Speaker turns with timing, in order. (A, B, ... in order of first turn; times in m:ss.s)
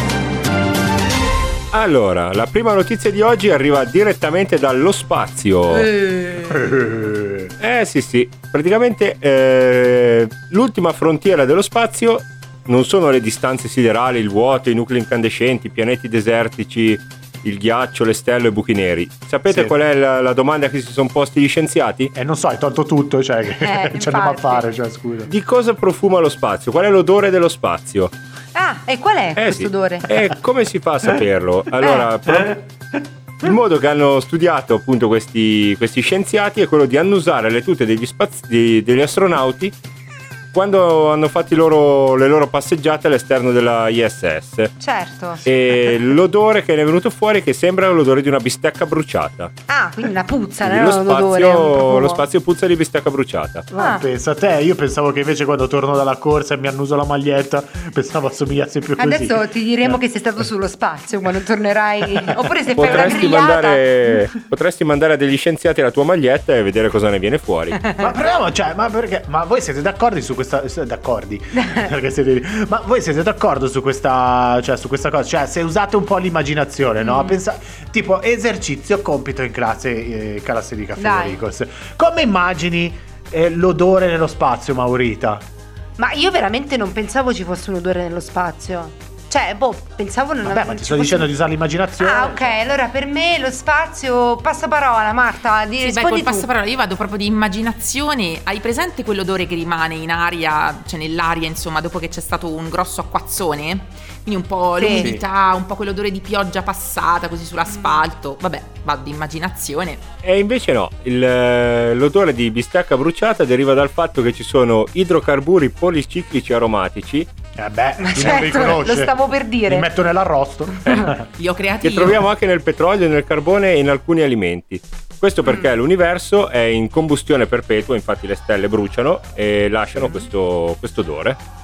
0:01.7-0:05.9 A
0:05.7-0:06.6 B
0:06.5-0:07.5 C
0:07.6-0:22.1 A
0:19.5-0:19.7 C
0:22.2-0:25.3 C
0:23.6-0:24.7 B
0:25.3-0:28.1 A
0:28.6-0:30.1 B
0:29.4-0:32.6 A
0:31.8-0:32.1 B
0:33.4-0:39.8 A
0:40.5-0:44.7 A
0:44.8-0:45.5 B
0:45.4-0:49.5 A
0:49.7-0:52.2 B
0:50.6-0:53.7 A
0:53.7-1:00.0 C
0:53.8-0:54.0 B
0:59.0-1:04.1 B
1:02.8-1:07.8 A
1:02.8-1:03.1 C
1:07.8-1:08.1 B
1:08.0-1:25.4 C
1:11.5-1:11.9 B
1:17.0-1:17.4 B
1:21.0-1:21.4 B
1:26.0-1:31.3 B
1:30.4-1:32.6 C
1:32.0-1:36.5 B
1:35.8-1:50.0 D
1:44.8-1:45.1 B
1:44.9-1:45.2 C
1:50.2-1:57.3 A
1:57.6-2:01.3 C
1:58.0-1:59.9 B
2:00.8-2:01.1 B
2:01.4-2:02.2 D
2:01.8-2:11.4 A
2:10.0-2:10.2 C